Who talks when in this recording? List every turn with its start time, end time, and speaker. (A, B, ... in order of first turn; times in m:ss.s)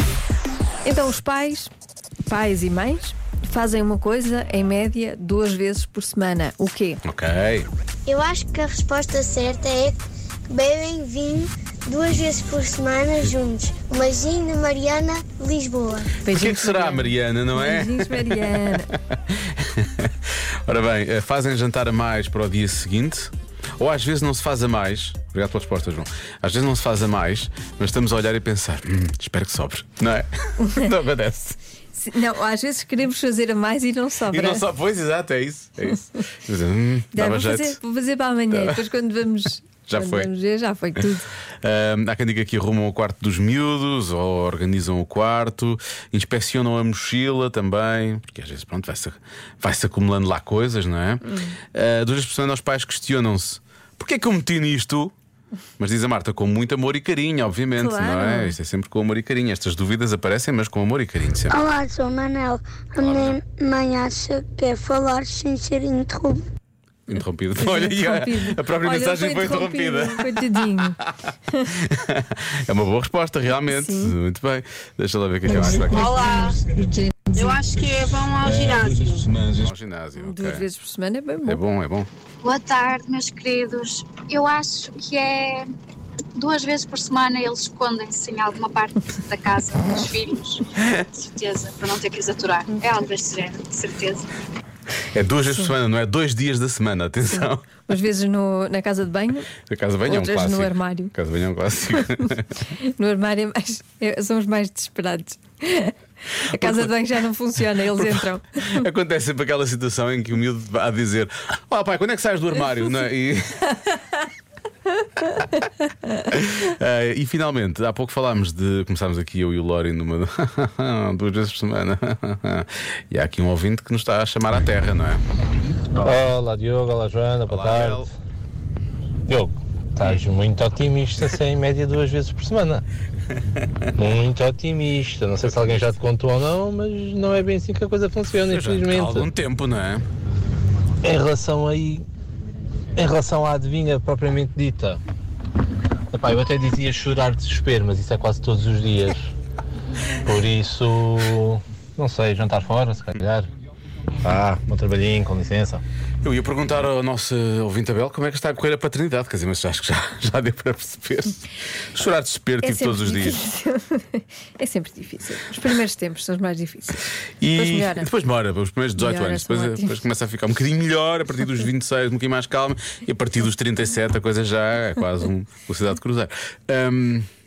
0:00.8-0:01.7 A
0:02.3-0:07.0 A
0:07.0-0:07.7 B
0:08.0-0:16.1 C
0:16.2-0:18.9 A
0:16.3-0:20.1 B
0:20.7-0:31.6 B
0:30.6-0:30.9 A
0:31.9-0:34.6 A
0:34.3-0:37.8 B
0:37.1-0:41.2 A
0:38.5-0:38.8 B
0:39.8-0:40.3 B
0:41.6-0:55.1 B
0:51.2-0:51.6 A
0:55.8-1:01.6 B
0:57.7-0:58.6 A
1:01.5-1:06.4 C
1:03.0-1:03.4 B
1:07.1-1:10.9 B
1:07.6-1:11.0 A
1:11.8-1:16.5 B
1:13.7-1:14.1 A
1:15.5-1:17.6 A
1:15.8-1:16.6 D
1:17.3-1:19.2 D
1:17.8-1:20.6 B
1:20.2-1:21.6 A
1:21.4-1:22.1 B
1:22.4-1:25.7 E
1:26.4-1:34.3 E
1:35.1-1:37.8 B
1:35.4-1:35.7 A
1:37.3-1:39.5 A
1:39.7-1:42.5 B
1:40.0-1:41.1 A
1:42.7-1:48.8 A
1:46.6-1:46.9 B
1:47.9-1:53.7 B
1:56.3-2:05.2 B
2:06.0-2:08.1 F
2:07.5-2:08.1 B
2:09.3-2:12.8 F
2:14.0-2:19.3 F
2:18.3-2:20.0 B
2:21.0-2:22.0 F
2:23.0-2:25.0 F
2:26.1-2:29.3 F
2:30.2-2:33.5 F
2:34.2-2:35.8 F
2:36.2-2:43.4 B
2:42.6-2:47.0 A
2:47.4-2:57.3 B
2:47.5-2:48.1 A
2:49.0-2:50.0 A